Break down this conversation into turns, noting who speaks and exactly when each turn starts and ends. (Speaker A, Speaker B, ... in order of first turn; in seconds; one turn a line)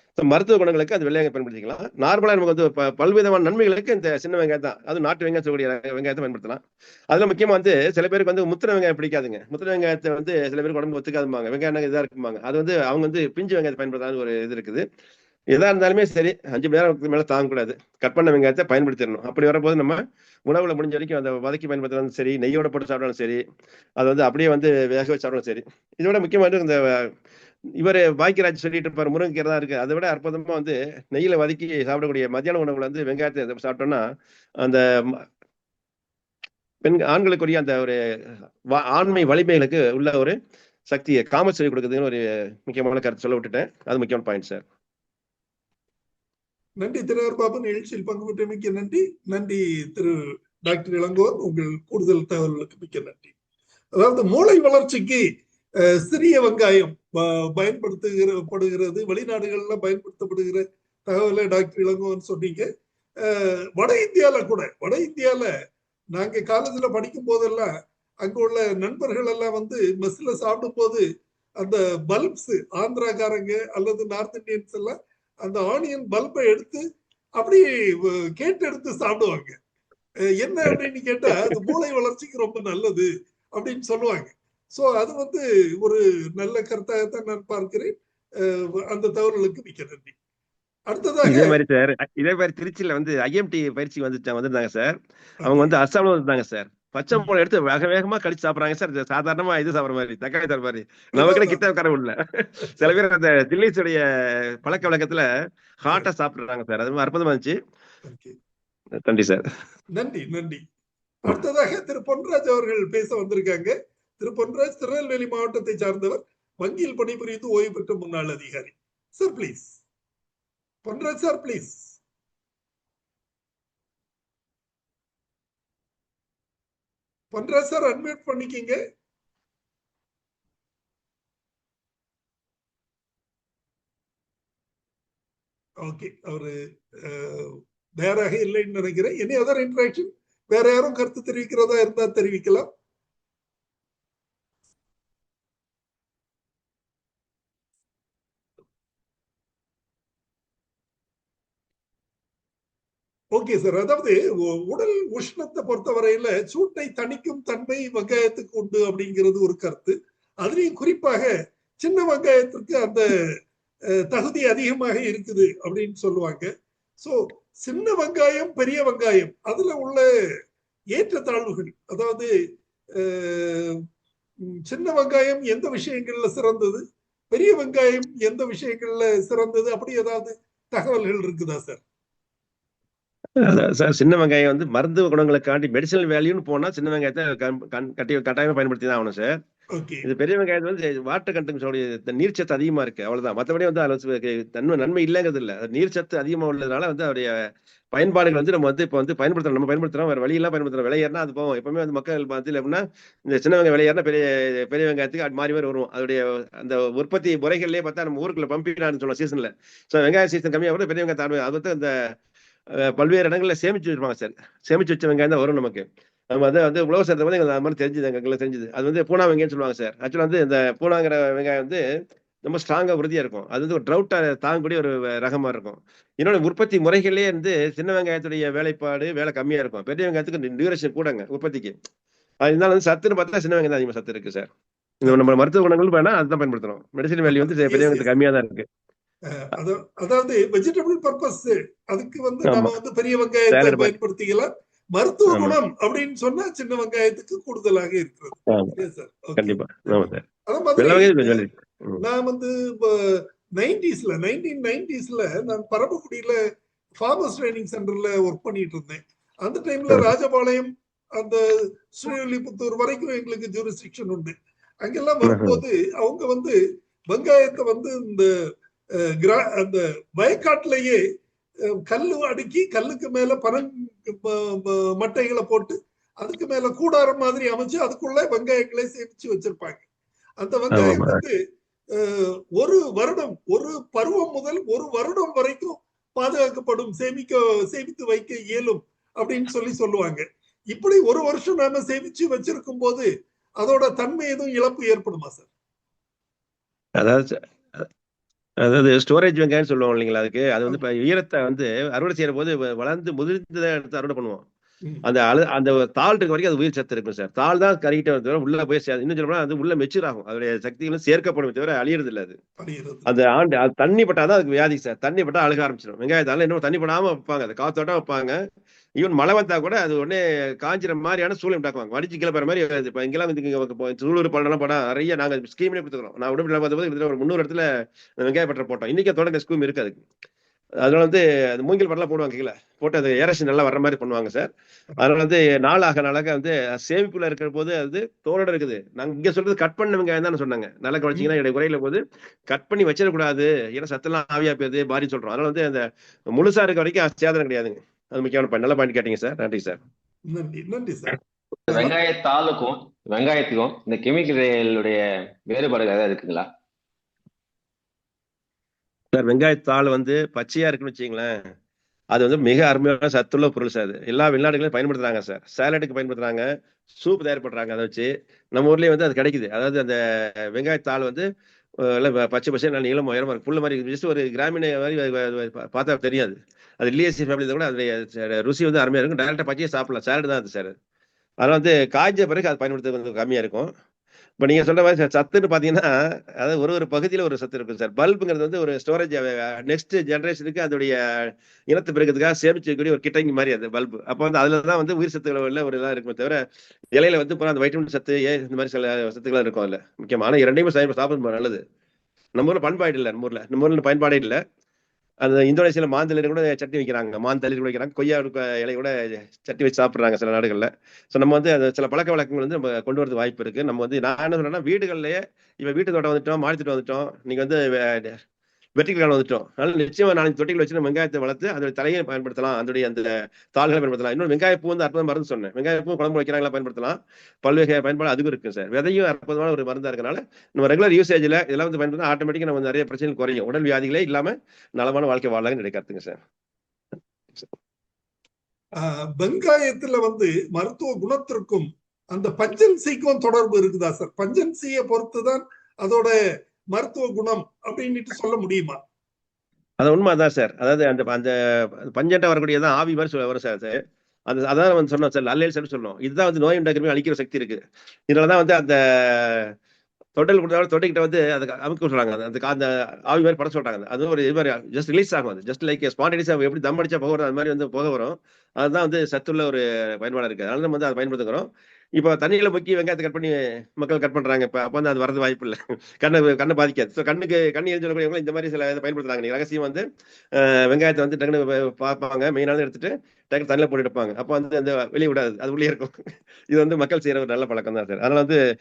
Speaker A: 0.2-14.8
Speaker A: 15.5-23.4
Speaker A: 24.0-27.1
Speaker A: 27.8-34.0
Speaker A: 34.6-35.2
Speaker A: 36.8-40.4
Speaker A: 40.9-44.6
Speaker B: 46.8-53.3
Speaker B: 54.0-55.2
Speaker B: 56.0-62.6
Speaker B: 63.2-65.5
Speaker B: 66.1-67.7
Speaker B: 68.2-71.0
Speaker B: 71.6-76.8
Speaker B: 77.4-79.6
Speaker B: 80.4-90.1
Speaker B: 90.9-91.6
Speaker A: 91.3-105.3
Speaker B: 95.4-95.7
Speaker B: 101.1-101.6
Speaker A: 105.8-107.6
Speaker B: 108.0-108.3
Speaker A: 109.0-109.4
Speaker B: 110.0-110.6
Speaker B: 111.2-119.8
Speaker B: 120.8-122.0
Speaker B: 127.3-128.8
Speaker B: 135.8-136.5
Speaker B: 137.1-142.7
Speaker B: 153.3-161.3
Speaker B: 161.8-163.1
Speaker B: 164.1-166.5
Speaker B: 167.0-170.1
Speaker B: 170.9-172.3
Speaker B: 173.0-173.8
Speaker B: 174.7-181.8
Speaker A: 183.4-189.3
Speaker B: 189.7-190.0
Speaker A: 190.0-197.3
Speaker A: 197.9-212.0
Speaker A: 212.8-221.8
Speaker A: 222.4-231.8
Speaker A: 232.4-234.5
Speaker A: 235.0-238.7
Speaker B: 237.3-238.1
Speaker B: 239.3-251.5
Speaker A: 242.4-242.7
Speaker A: 243.5-243.9
Speaker A: 245.3-245.6
Speaker A: 248.5-248.8
Speaker A: 249.4-250.2
Speaker A: 250.8-252.0
Speaker B: 252.0-256.4
Speaker B: 257.0-266.6
Speaker A: 265.2-265.6
Speaker B: 267.1-268.3
Speaker B: 269.2-271.0
Speaker B: 271.9-279.8
Speaker B: 280.4-281.4
Speaker A: 280.7-281.2
Speaker B: 281.9-293.1
Speaker B: 293.6-295.5
Speaker A: 297.0-297.9
Speaker A: 298.6-304.4
Speaker A: 305.1-312.4
Speaker B: 312.6-313.1
Speaker A: 313.1-318.4
Speaker A: 319.0-327.7
Speaker A: 328.2-330.0
Speaker A: 330.8-334.5
Speaker A: 335.0-349.8
Speaker B: 350.3-351.2
Speaker C: 351.7-356.5
Speaker A: 359.1-361.3
Speaker A: 362.1-370.0
Speaker A: 370.5-371.3
Speaker A: 371.8-380.7
Speaker A: 381.4-383.7
Speaker A: 384.4-396.4
Speaker A: 396.9-401.6
Speaker A: 402.4-404.4
Speaker A: 405.2-418.2
Speaker A: 418.8-436.2
Speaker B: 438.8-446.1
Speaker B: 446.7-448.8
Speaker A: 449.8-451.3
Speaker A: 451.9-453.8
Speaker A: 454.3-459.5
Speaker A: 460.1-479.8
Speaker A: 480.4-485.9
Speaker A: 486.5-488.4